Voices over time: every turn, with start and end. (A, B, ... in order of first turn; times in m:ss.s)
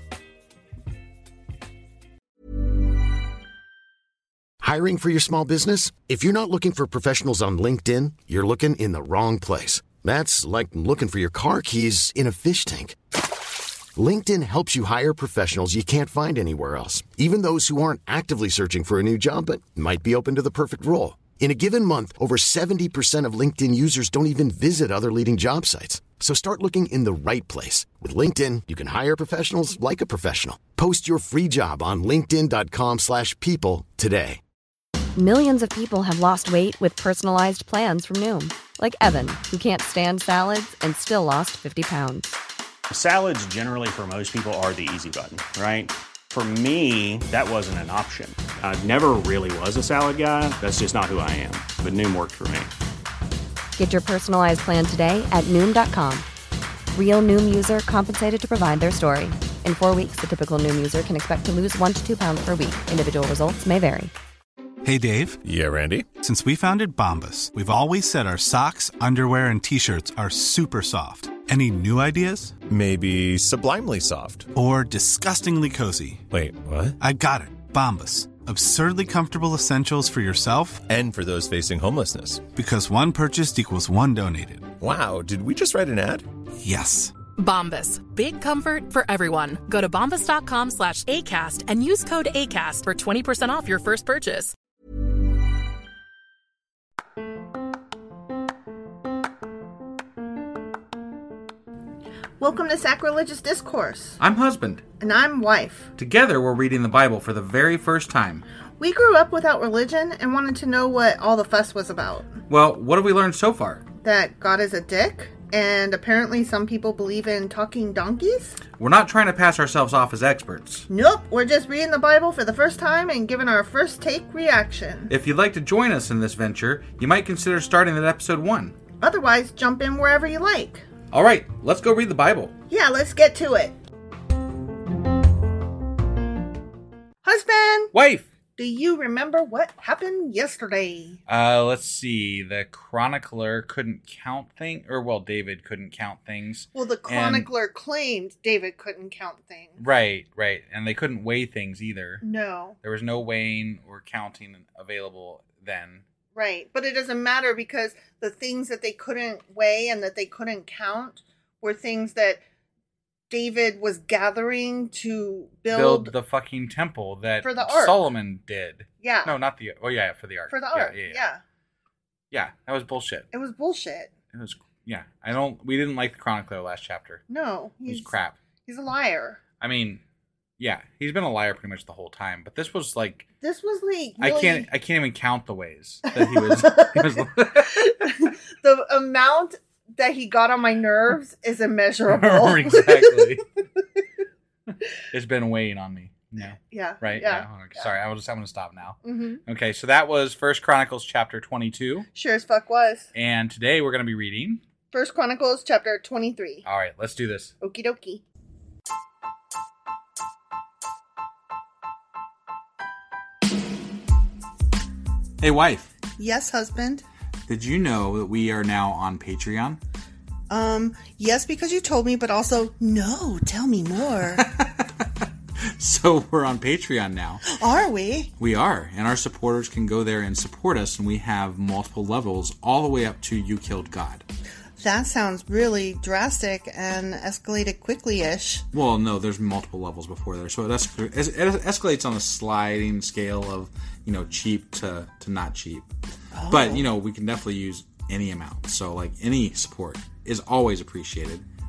0:04.6-0:13.0 A
0:14.0-0:34.4 A
0:35.2-0:42.3 B
0:42.9-0:52.7 C
0:53.8-0:56.2 B
0:56.9-1:04.1 B
1:04.8-1:05.4 D
1:05.4-1:06.1 E
1:06.2-1:12.6 D
1:12.7-1:14.5 E
1:14.5-1:16.2 D
1:16.3-1:17.0 E
1:17.0-1:20.8 D
1:20.9-1:22.5 E
1:22.5-1:24.7 D
1:24.8-1:26.3 E
1:26.6-1:27.1 D
1:27.4-1:34.5 F
1:42.4-1:44.2 G
1:44.2-1:44.8 H
1:45.0-1:45.9 G
1:46.0-1:48.4 H
1:48.8-1:52.4 G
1:52.5-1:53.9 H
1:54.0-1:58.6 G
1:58.8-2:00.9 H
2:00.9-2:05.1 G
2:05.1-2:08.8 H
2:09.0-2:10.9 G
2:11.1-2:12.5 H
2:12.7-2:13.8 G
2:17.2-2:17.9 G
2:17.9-2:18.3 H
2:18.6-2:21.2 G
2:21.3-2:27.5 H
2:26.8-2:29.8 G
2:29.8-2:32.2 H
2:32.2-2:32.8 G
2:32.8-2:36.0 H
2:36.4-2:42.4 G
2:43.3-2:46.1 G
2:45.7-2:51.2 H
2:47.4-2:48.0 G
2:49.0-2:49.4 G
2:50.5-2:51.4 G
2:52.3-2:53.3 H
2:53.3-2:54.1 G
2:54.3-2:57.2 H
2:57.3-2:58.1 G
2:57.9-2:58.4 H
2:58.6-2:59.4 G
2:59.6-3:00.0 H
3:00.6-3:03.2 H
3:03.4-3:04.7 G
3:04.2-3:08.0 H
3:06.2-3:07.0 G
3:07.6-3:13.2 G
3:12.1-3:13.4 H
3:15.1-3:22.1 H
3:16.4-3:17.9 G
3:19.0-3:19.4 G
3:22.1-3:23.1 G
3:23.1-3:24.6 H
3:24.9-3:26.6 G
3:26.6-3:27.5 H
3:27.6-3:28.2 G
3:35.4-3:35.9 H
3:36.2-3:37.0 G
3:37.5-3:39.8 H
3:40.5-3:44.4 G
3:44.4-3:44.8 H
3:45.8-3:47.5 H
3:47.5-3:48.3 G
3:48.4-3:54.2 H
3:54.8-3:58.6 G
3:58.7-4:05.9 H
4:06.3-4:06.9 G
4:06.5-4:11.4 H